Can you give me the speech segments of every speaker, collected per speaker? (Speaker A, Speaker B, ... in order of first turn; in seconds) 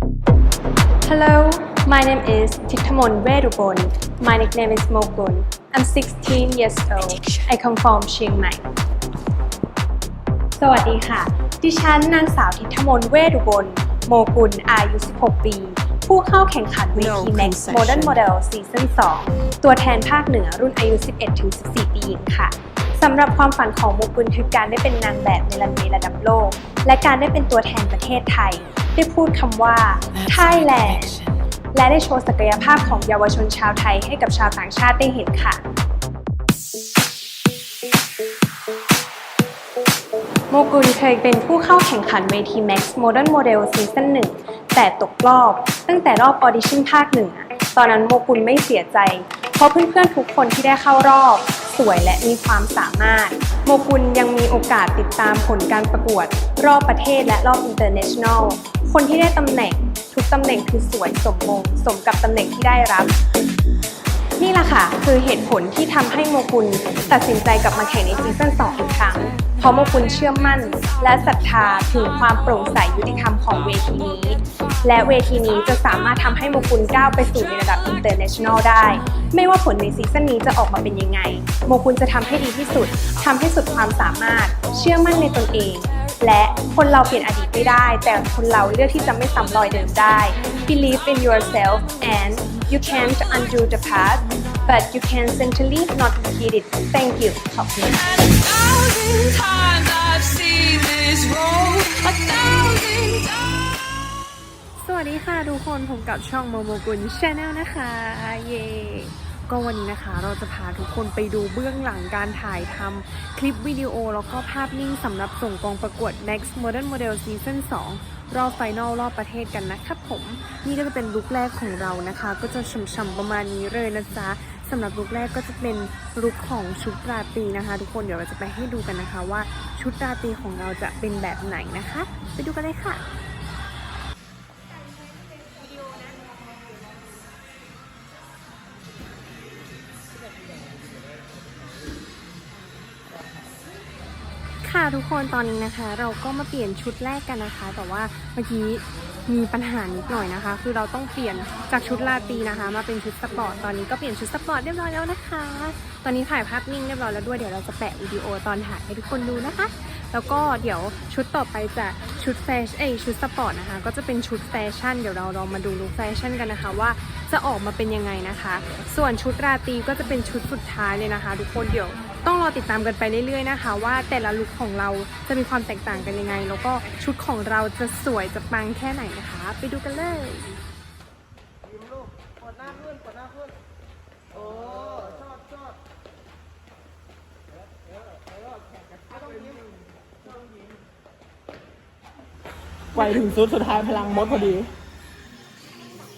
Speaker A: 1.0-8.6, 10.6-31.1, 31.7-35.6, 40.5-63.1, 64.4-98.0, 104.8-133.0, 144.6-180.5
Speaker B: 7.0-7.5, 16.9-18.2, 30.1-31.2, 192.9-194.7
Speaker C: 98.1-103.8